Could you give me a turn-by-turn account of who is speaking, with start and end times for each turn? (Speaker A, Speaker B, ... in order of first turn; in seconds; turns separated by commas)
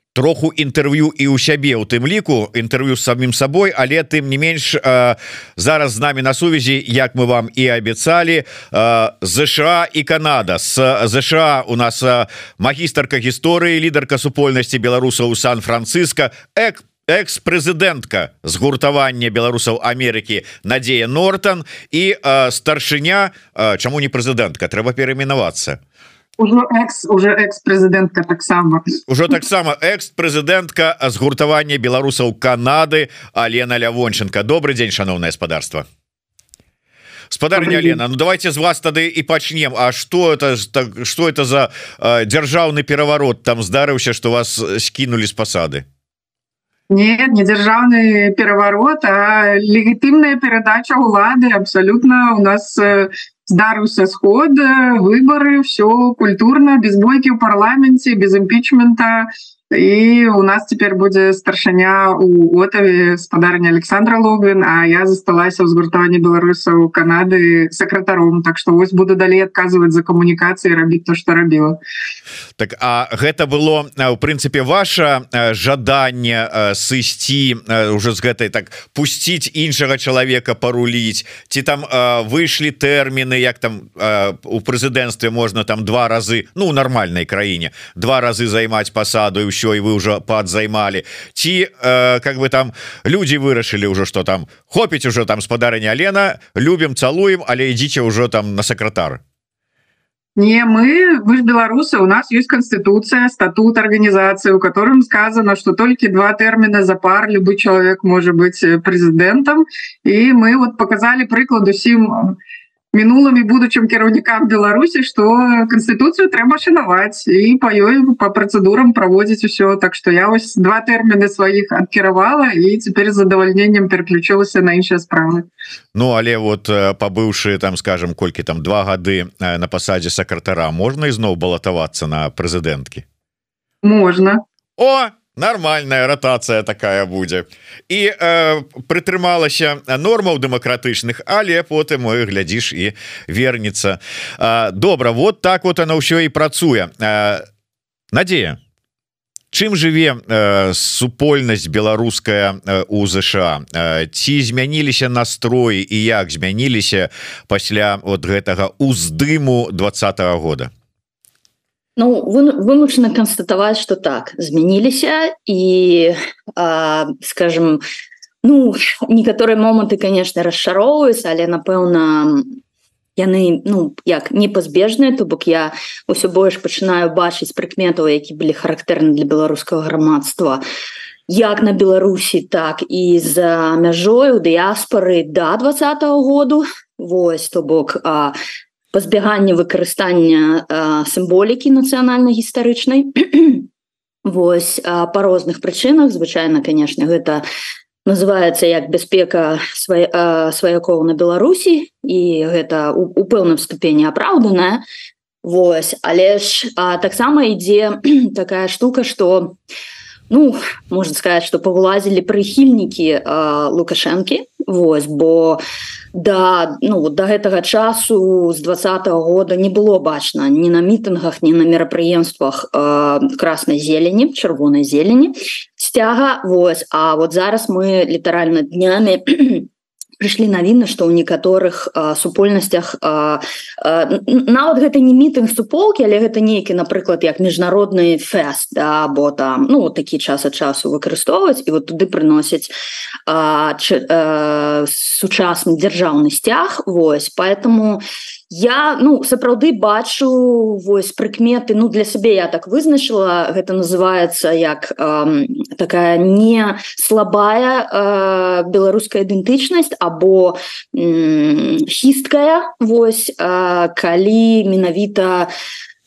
Speaker A: 0.1-25.8, Speaker B: 26.4-28.8, Speaker A: 29.1-35.9, Speaker A: 37.3-45.8, Speaker B: 37.6-38.0, Speaker B: 46.9-71.8, Speaker A: 72.6-99.2, Speaker B: 100.4-112.4, Speaker B: 112.9-125.5, Speaker A: 126.0-133.1, Speaker B: 133.8-134.4, Speaker A: 134.8-147.4, Speaker A: 148.1-148.6, Speaker A: 149.5-160.7, Speaker C: 162.0-167.8, Speaker C: 168.4-172.6, Speaker C: 173.2-180.6, Speaker C: 181.3-188.4, Speaker C: 188.9-193.7, Speaker C: 194.2-197.4, Speaker C: 198.1-204.8, Speaker C: 205.4-209.6, Speaker C: 210.3-215.6, Speaker C: 216.1-242.7, Speaker C: 243.3-265.5